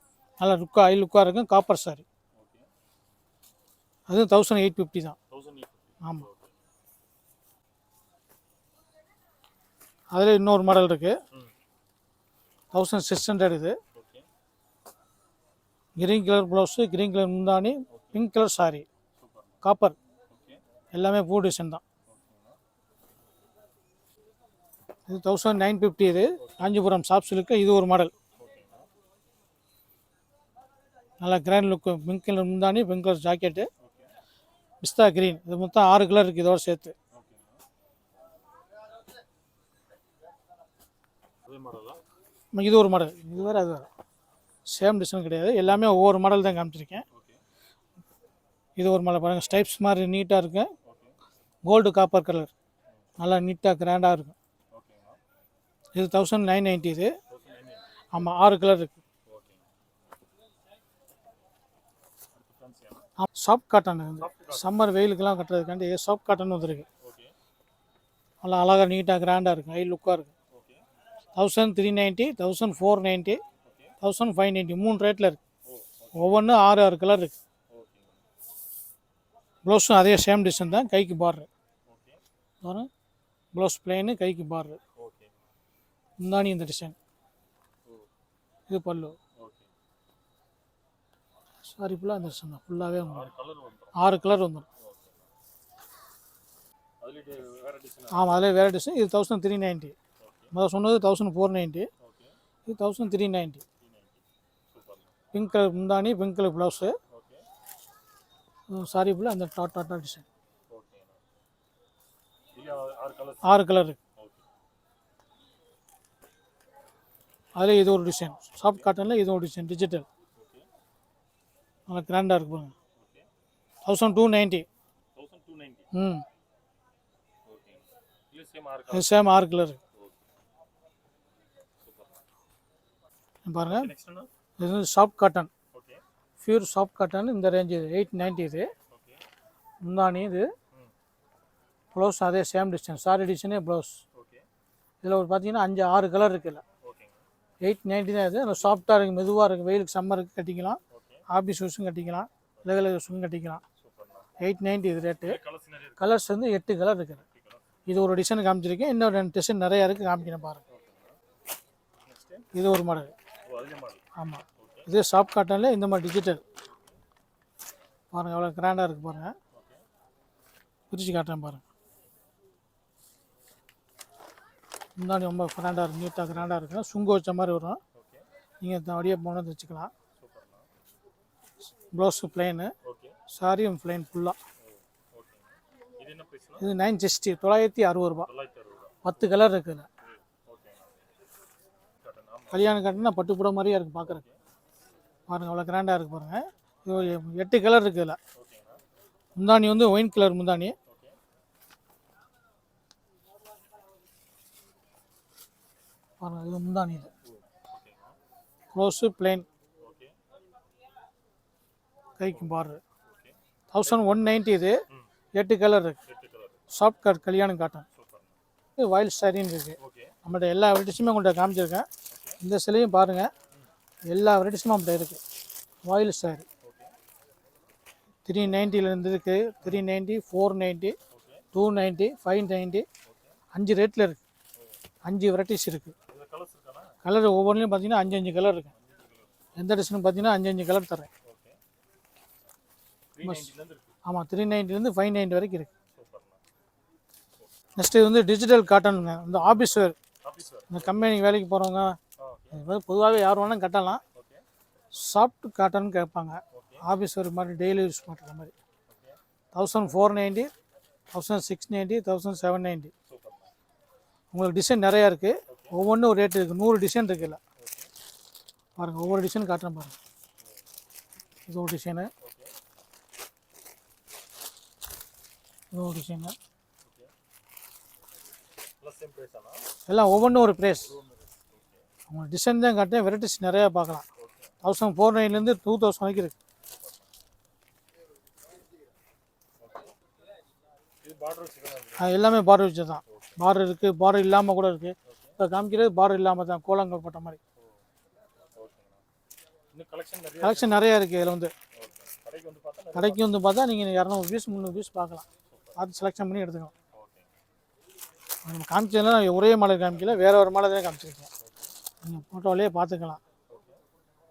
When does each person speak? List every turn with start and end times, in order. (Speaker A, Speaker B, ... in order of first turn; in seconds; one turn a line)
Speaker A: 0.4-2.0
Speaker B: 2.3-2.7
Speaker A: 4.1-5.2
Speaker B: 5.3-6.6
Speaker A: 10.1-11.2
Speaker A: 12.7-13.8
Speaker B: 13.9-14.3
Speaker A: 16.0-18.9
Speaker B: 17.9-18.2
Speaker B: 19.2-19.6
Speaker A: 19.6-20.0
Speaker B: 20.3-20.6
Speaker A: 20.9-21.8
Speaker B: 22.1-22.6
Speaker A: 25.1-28.1
Speaker B: 26.4-26.8
Speaker B: 28.4-28.9
Speaker A: 31.2-33.7
Speaker B: 33.8-34.1
Speaker A: 34.8-36.9
Speaker B: 37.1-37.6
Speaker B: 41.4-42.0
Speaker A: 42.5-43.9
Speaker A: 44.7-47.0
Speaker B: 47.1-47.4
Speaker A: 48.8-50.7
Speaker B: 50.8-51.1
Speaker A: 51.6-52.5
Speaker A: 53.2-54.3
Speaker B: 54.7-55.2
Speaker A: 55.9-57.1
Speaker B: 57.3-58.0
Speaker A: 58.1-59.0
Speaker B: 59.3-59.7
Speaker B: 62.3-63.1
Speaker A: 63.2-66.8
Speaker B: 64.2-64.7
Speaker B: 67.0-67.3
Speaker A: 68.4-70.3
Speaker B: 70.5-70.8
Speaker A: 71.3-73.4
Speaker B: 73.6-73.9
Speaker A: 74.0-75.4
Speaker B: 75.7-76.4
Speaker A: 76.1-77.3
Speaker B: 77.7-78.2
Speaker A: 79.6-81.5
Speaker B: 81.8-82.2
Speaker A: 82.6-82.9
Speaker A: 83.5-84.8
Speaker B: 85.0-85.3
Speaker A: 86.2-87.0
Speaker A: 88.7-89.2
Speaker B: 89.3-89.7
Speaker A: 91.7-93.3
Speaker B: 93.0-94.0
Speaker A: 93.9-94.7
Speaker B: 94.8-95.3
Speaker B: 97.0-98.4
Speaker A: 98.1-99.9
Speaker B: 100.2-100.5
Speaker A: 100.5-101.9
Speaker B: 102.0-102.3
Speaker A: 102.7-103.6
Speaker B: 103.8-105.2
Speaker A: 105.3-107.0
Speaker B: 107.1-107.5
Speaker A: 108.7-110.2
Speaker B: 110.7-111.2
Speaker B: 112.5-113.6
Speaker A: 113.4-114.0
Speaker B: 114.2-114.4
Speaker A: 117.5-120.0
Speaker B: 118.6-118.9
Speaker B: 120.3-120.7
Speaker A: 121.9-122.7
Speaker B: 123.0-123.3
Speaker A: 123.8-124.7
Speaker B: 125.1-125.9
Speaker A: 125.9-126.2
Speaker B: 127.5-129.2
Speaker A: 128.9-129.8
Speaker B: 131.8-132.2
Speaker A: 133.4-133.9
Speaker B: 133.7-134.3
Speaker A: 134.6-135.5
Speaker B: 135.7-136.0
Speaker A: 136.4-138.7
Speaker B: 138.9-139.2
Speaker A: 139.8-140.5
Speaker A: 141.9-144.0
Speaker B: 144.1-144.4
Speaker A: 145.0-146.6
Speaker B: 146.8-147.2
Speaker A: 147.6-153.6
Speaker B: 150.9-151.2
Speaker B: 153.8-154.3
Speaker A: 154.4-155.4
Speaker B: 155.2-156.2
Speaker A: 156.0-157.2
Speaker B: 157.3-157.8
Speaker A: 157.9-160.6
Speaker B: 160.7-161.2
Speaker B: 162.0-162.5
Speaker A: 162.5-163.1
Speaker B: 163.4-164.0
Speaker A: 164.2-166.4
Speaker B: 164.6-164.9
Speaker A: 168.1-169.3
Speaker B: 169.5-169.8
Speaker A: 170.9-171.6
Speaker A: 175.0-177.8
Speaker B: 177.9-178.3
Speaker A: 178.6-179.9
Speaker B: 180.2-180.7
Speaker A: 181.9-182.7
Speaker B: 182.8-183.2
Speaker A: 183.3-184.4
Speaker B: 184.6-186.7
Speaker A: 186.6-188.3
Speaker B: 188.2-189.2
Speaker A: 189.0-189.9
Speaker B: 190.0-191.0
Speaker B: 192.0-192.8
Speaker A: 192.5-194.2
Speaker B: 194.0-194.4
Speaker A: 195.3-198.2
Speaker B: 198.3-198.8
Speaker A: 199.3-200.7
Speaker B: 200.9-201.2
Speaker A: 206.2-207.1
Speaker B: 207.2-208.2
Speaker A: 208.7-209.4
Speaker B: 209.8-210.2
Speaker A: 212.2-212.8
Speaker B: 213.1-214.3
Speaker A: 213.7-214.8
Speaker A: 215.3-216.0
Speaker B: 216.1-216.6
Speaker A: 216.7-217.8
Speaker B: 217.9-218.4
Speaker A: 218.8-221.9
Speaker B: 219.8-220.2
Speaker B: 222.1-222.4
Speaker A: 222.4-223.3
Speaker A: 224.1-225.2
Speaker A: 225.8-226.4
Speaker B: 226.6-226.9
Speaker A: 228.2-230.9
Speaker B: 231.1-231.4
Speaker A: 231.5-232.8
Speaker B: 233.0-233.3
Speaker A: 233.5-234.2
Speaker A: 235.0-235.9
Speaker B: 236.1-237.0
Speaker A: 237.0-238.7
Speaker B: 238.7-239.4
Speaker A: 239.6-241.1
Speaker B: 241.2-241.6
Speaker B: 243.1-243.9
Speaker A: 243.2-243.5
Speaker A: 244.0-245.7
Speaker B: 245.9-246.4
Speaker A: 247.8-250.0
Speaker B: 250.2-251.2
Speaker A: 250.7-252.0
Speaker B: 252.2-252.6
Speaker A: 252.5-254.0
Speaker B: 254.1-254.4
Speaker A: 254.9-258.5
Speaker B: 256.5-256.8
Speaker B: 258.9-259.2
Speaker A: 259.5-260.5
Speaker A: 261.1-262.9
Speaker B: 263.1-263.5
Speaker A: 264.3-267.4
Speaker B: 265.5-265.7
Speaker B: 267.6-267.9
Speaker A: 268.8-269.9
Speaker A: 271.5-272.1
Speaker B: 272.2-272.5
Speaker A: 275.7-276.4
Speaker B: 276.8-277.1
Speaker B: 278.8-279.7
Speaker A: 279.9-280.9
Speaker B: 280.7-281.9
Speaker A: 282.1-284.0
Speaker B: 284.2-284.5
Speaker A: 284.6-286.3
Speaker B: 286.6-287.1
Speaker B: 289.6-289.9
Speaker B: 291.0-292.3
Speaker A: 292.0-297.4
Speaker B: 293.1-293.4
Speaker B: 295.1-295.4
Speaker B: 297.6-299.0
Speaker B: 299.7-300.9
Speaker A: 300.4-301.5
Speaker B: 301.7-303.4
Speaker A: 302.9-306.7
Speaker B: 305.5-305.8
Speaker B: 306.9-307.3
Speaker A: 308.4-311.3
Speaker B: 311.4-311.7
Speaker A: 312.0-313.2
Speaker B: 313.5-313.8